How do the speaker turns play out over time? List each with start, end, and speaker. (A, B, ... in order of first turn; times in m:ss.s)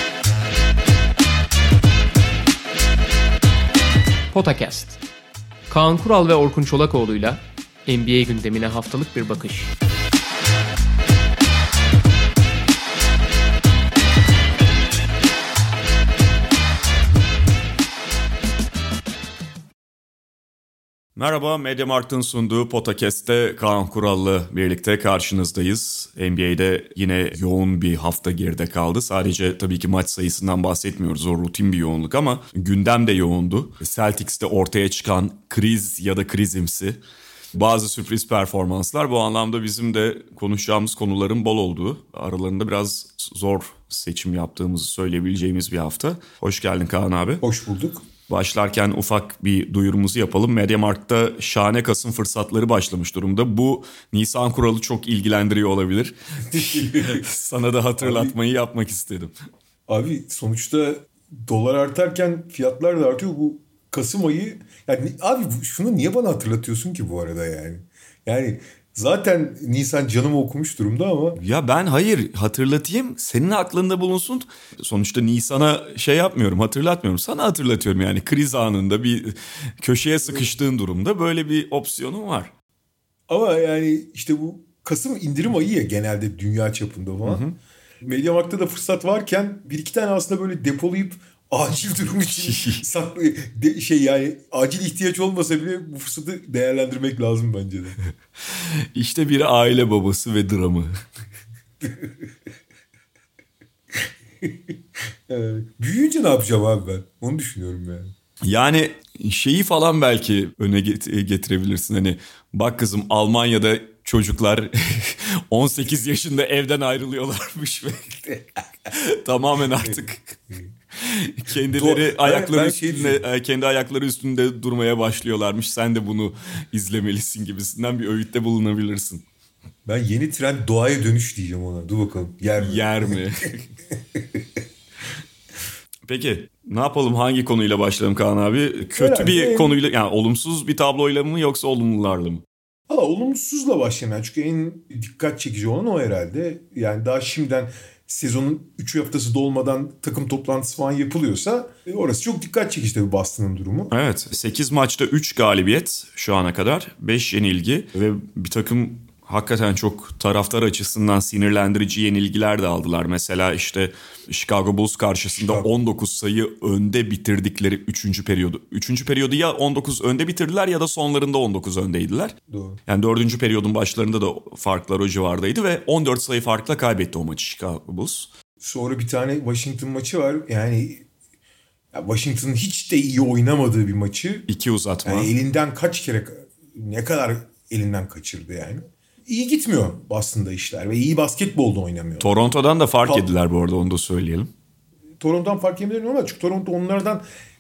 0:04.3-0:05.0 A
0:05.7-0:09.7 A
0:21.2-0:37.0 B
0:37.5-0:47.4 B
0:47.4-0:48.0 C
0:48.3-0:59.4 B
0:56.5-0:57.2 C
0:58.0-0:58.3 C
0:59.9-1:11.4 C
1:11.4-1:22.5 B
1:23.3-1:27.4 C
1:27.2-1:27.5 B
1:28.0-1:38.0 C
1:32.3-1:32.8 B
1:39.0-1:41.0 B
1:41.8-1:42.1 C
1:45.3-1:48.1 C
1:48.4-2:00.4 B
1:59.8-2:00.7 C
2:01.0-2:09.2 B
2:01.7-2:03.2 C
2:09.9-2:13.2 C
2:12.6-2:13.7 B
2:16.1-2:22.4 B
2:18.9-2:19.8 C
2:22.9-2:33.9 C
2:33.9-2:52.4 B
2:45.4-2:45.7 C
2:52.5-2:52.8 C
2:52.9-2:58.3 B
2:58.6-3:01.0 C
3:01.9-3:04.5 C
3:04.5-3:05.3 B
3:05.0-3:12.3 C
3:12.2-3:14.5 B
3:15.2-3:17.2 C